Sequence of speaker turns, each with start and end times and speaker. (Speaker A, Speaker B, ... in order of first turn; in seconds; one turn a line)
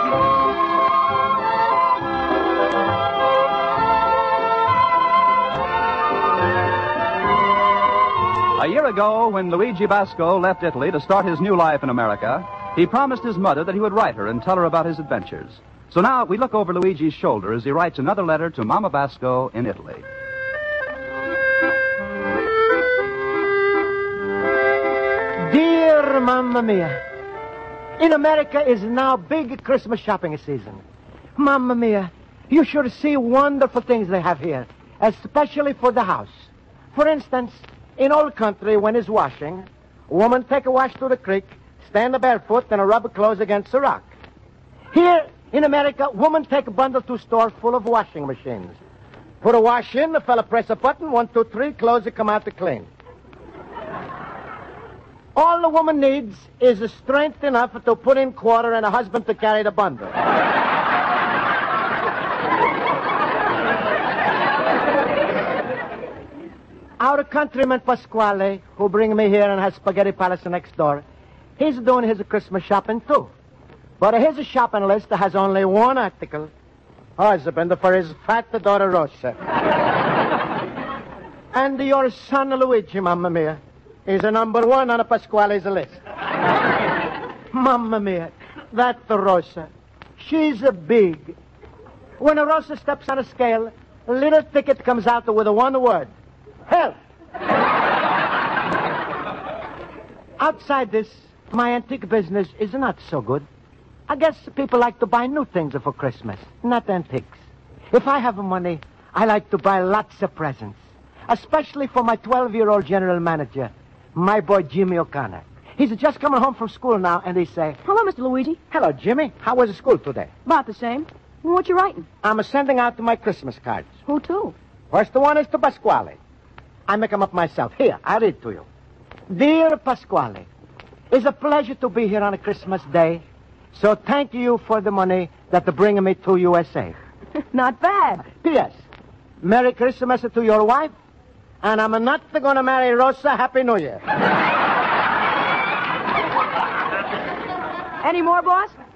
Speaker A: 8.6-20.1
Speaker B: 25.4-27.0
Speaker B: 28.0-30.8
Speaker B: 31.4-44.1
Speaker B: 44.9-48.8
Speaker B: 49.4-52.9
Speaker B: 55.4-60.1
Speaker B: 67.0-71.0
Speaker B: 71.6-73.3
Speaker B: 74.0-76.5
Speaker B: 77.2-79.4
Speaker B: 81.5-86.0
Speaker B: 87.5-91.4
Speaker B: 92.2-96.1
Speaker B: 96.7-97.0
Speaker B: 100.4-103.5
Speaker B: 104.1-107.4
Speaker B: 107.9-117.8
Speaker C: 117.8-118.6
Speaker B: 118.7-120.3
Speaker C: 120.5-122.1
Speaker B: 122.2-123.9
Speaker C: 124.1-124.5
Speaker B: 124.9-126.2
Speaker B: 126.9-128.7
Speaker B: 129.3-130.5
Speaker B: 131.1-137.0
Speaker C: 137.5-138.3
Speaker B: 138.3-138.8
Speaker B: 139.4-140.9
Speaker B: 141.6-144.0
Speaker C: 148.0-148.8